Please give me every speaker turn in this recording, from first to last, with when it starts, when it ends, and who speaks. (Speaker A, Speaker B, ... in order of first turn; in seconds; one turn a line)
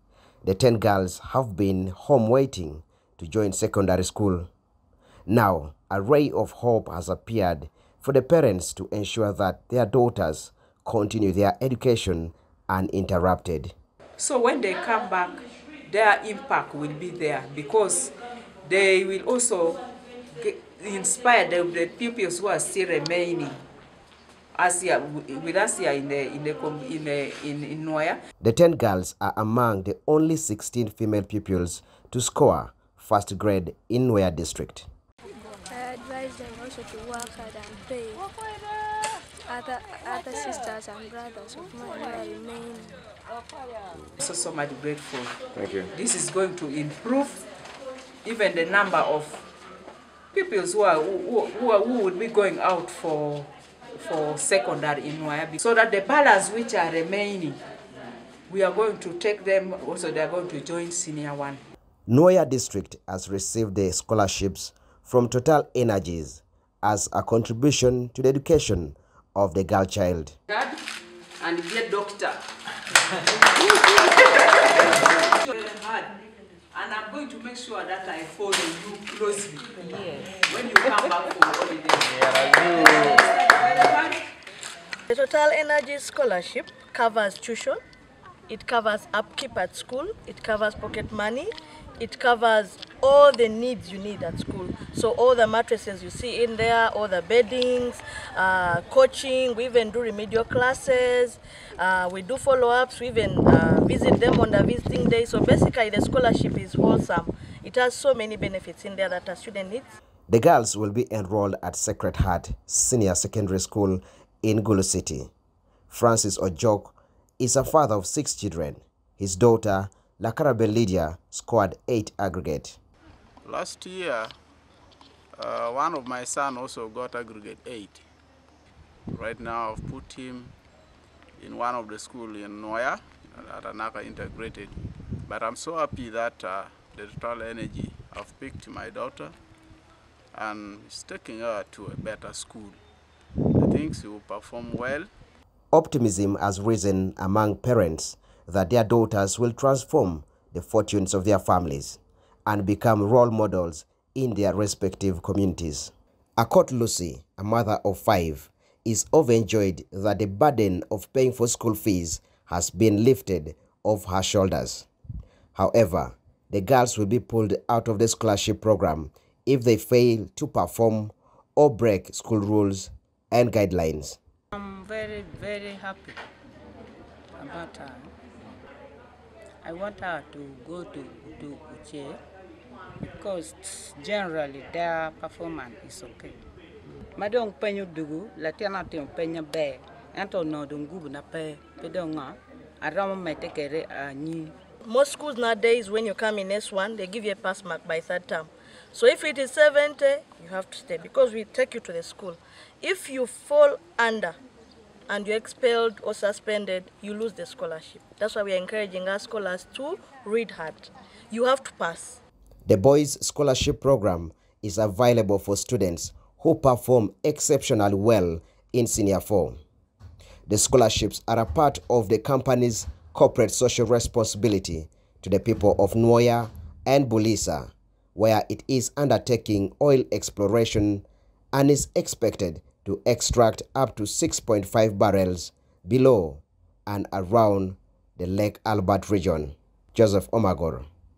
Speaker A: 0.4-4.5
Speaker A: 5.3-13.7
Speaker B: 14.2-19.8
Speaker B: 20.3-23.6
Speaker B: 24.5-28.2
Speaker A: 28.4-34.9
Speaker C: 35.7-38.2
Speaker C: 39.4-43.0
Speaker B: 44.2-45.4
Speaker B: 45.9-47.4
Speaker B: 48.2-49.4
Speaker B: 50.3-57.6
Speaker B: 58.5-61.6
Speaker A: 62.1-70.4
Speaker B: 70.5-70.8
Speaker B: 71.4-72.4
Speaker B: 73.5-76.1
Speaker B: 76.7-84.3
Speaker D: 82.0-83.2
Speaker E: 85.1-87.8
Speaker E: 88.5-109.9
Speaker A: 110.3-115.3
Speaker A: 115.9-122.8
Speaker D: 123.4-124.3
Speaker D: 125.3-128.0
Speaker D: 129.1-130.5
Speaker D: 131.4-134.7
Speaker D: 135.3-139.3
Speaker D: 140.3-142.8
Speaker D: 143.6-145.1
Speaker A: 145.7-164.9
Speaker A: 165.5-174.2
Speaker F: 174.5-176.2
Speaker F: 177.4-178.1
Speaker F: 179.6-182.2
Speaker F: 183.2-186.3
Speaker F: 187.1-194.5
Speaker E: 194.8-204.3
Speaker E: 205.1-212.2
Speaker A: 212.7-219.6
Speaker A: 220.5-240.9